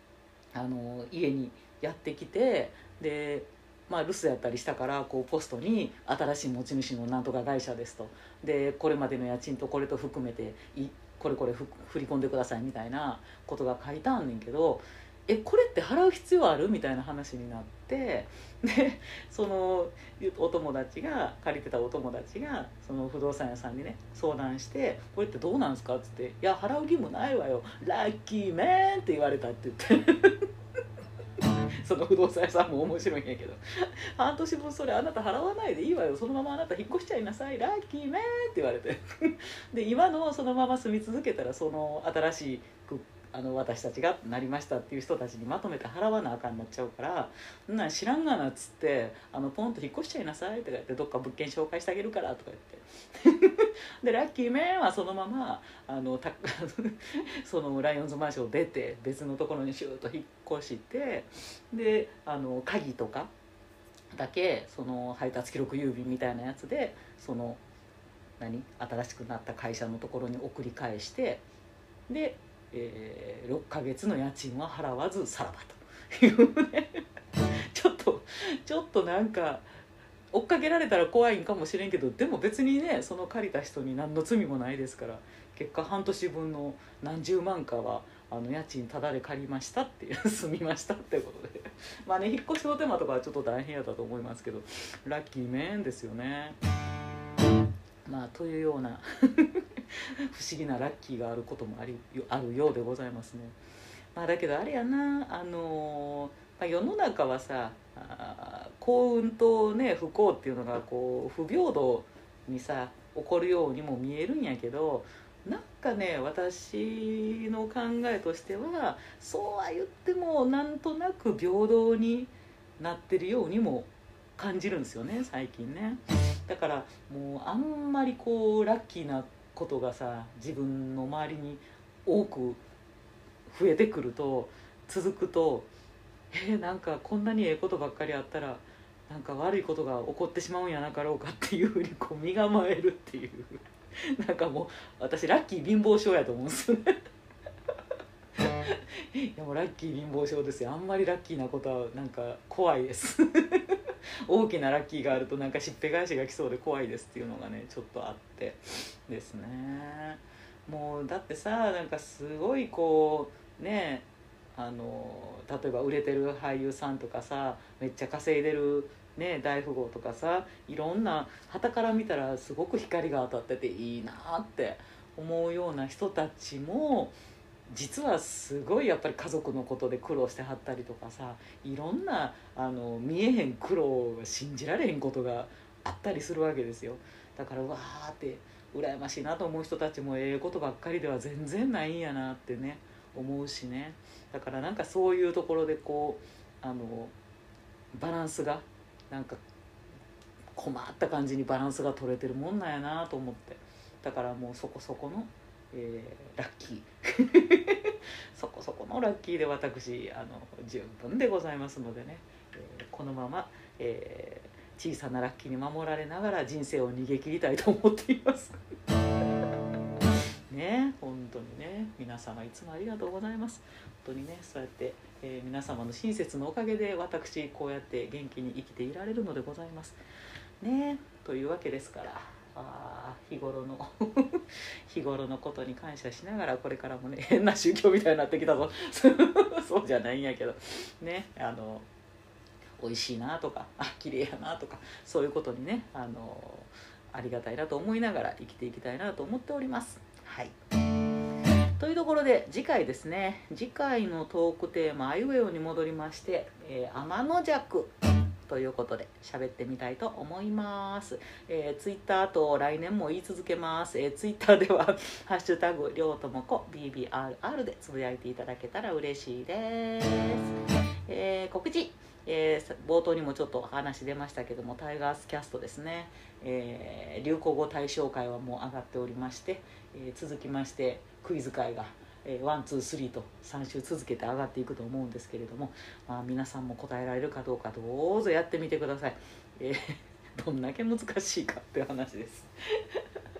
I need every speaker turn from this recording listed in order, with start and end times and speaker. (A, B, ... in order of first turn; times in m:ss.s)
0:00.5-0:30.5 A
0:31.8-1:03.3 A
1:04.1-1:07.6 A
1:08.4-1:11.4 A
1:12.1-1:17.0 A
1:17.7-1:19.7 A
1:20.3-1:36.6 A
1:38.0-1:43.6 A
1:44.1-2:12.6 A
2:13.5-2:15.7 A
2:16.3-2:26.9 A
2:28.4-2:57.2 A
2:57.7-3:17.1 A
3:17.9-3:19.4 A
3:20.5-3:38.6 A
3:40.5-3:50.0 A
3:50.6-4:01.9 A
4:02.8-4:10.5 A
4:11.8-4:17.9 A
4:18.4-4:53.0 A